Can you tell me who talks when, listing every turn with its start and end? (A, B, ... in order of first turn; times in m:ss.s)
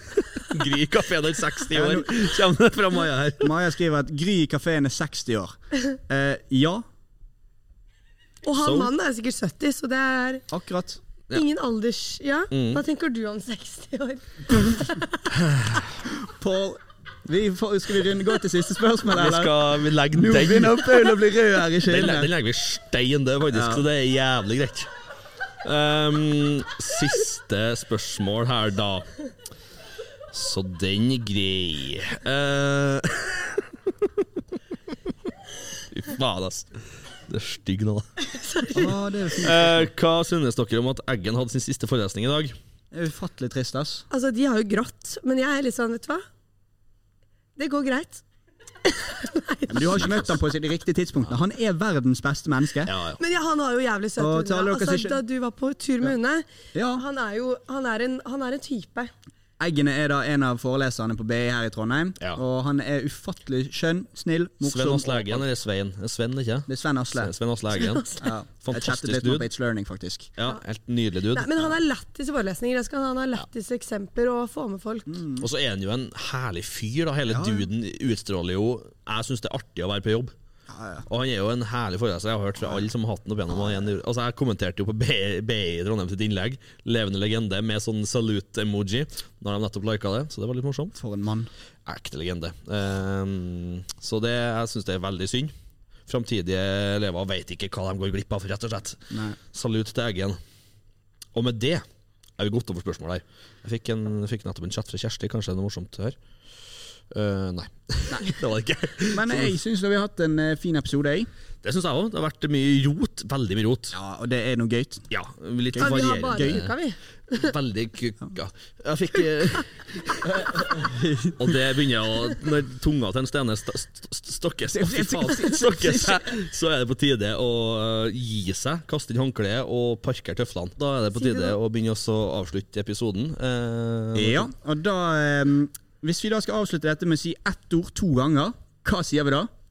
0:00.3-0:03.5 A
0:01.7-0:02.2 B
0:03.4-0:06.8 B
0:08.4-0:10.4 C
0:08.5-0:08.9 A
0:10.5-0:11.0 B
0:11.3-0:15.3 C
0:12.5-0:12.8 A
0:15.4-0:15.9 A
0:16.1-0:22.3 B
0:19.1-0:21.2 A
0:21.8-0:24.9 A
0:23.5-0:23.8 B
0:25.6-0:29.1 A
0:30.3-0:33.7 A
0:35.9-0:38.1 A
0:38.2-0:38.9 C
0:38.7-0:39.9 B
0:39.4-0:42.5 A
0:42.9-0:44.0 B
0:44.1-0:46.2 C
0:47.6-0:48.2 C
0:48.8-0:50.0 C
0:49.7-0:52.9 B
0:52.8-0:53.2 A
0:53.2-0:59.1 C
0:54.2-0:55.2 B
0:56.7-0:57.0 B
0:59.6-1:05.4 B
1:04.6-1:09.5 A
1:06.7-1:07.3 B
1:07.7-1:08.3 C
1:08.2-1:10.3 B
1:10.4-1:11.8 A
1:11.3-1:15.2 C
1:15.1-1:15.4 B
1:15.4-1:20.3 A
1:17.3-1:17.7 B
1:20.7-1:21.0 B
1:21.1-1:31.0 A
1:22.6-1:22.8 B
1:23.5-1:23.9 B
1:31.0-1:31.5 B
1:31.8-1:35.5 A
1:36.1-1:40.4 A
1:39.1-1:39.4 B
1:41.3-1:41.8 A
1:42.4-1:49.5 A
1:48.1-1:48.4 B
1:49.1-1:51.3 B
1:51.6-1:54.0 A
1:53.9-1:55.0 B
1:55.1-1:56.7 A
1:55.7-1:56.6 B
1:55.8-1:57.5 C
1:57.3-2:00.8 A
2:00.3-2:01.4 B
2:01.3-2:14.5 A
2:04.7-2:06.3 B
2:11.1-2:11.6 C
2:14.1-2:19.5 B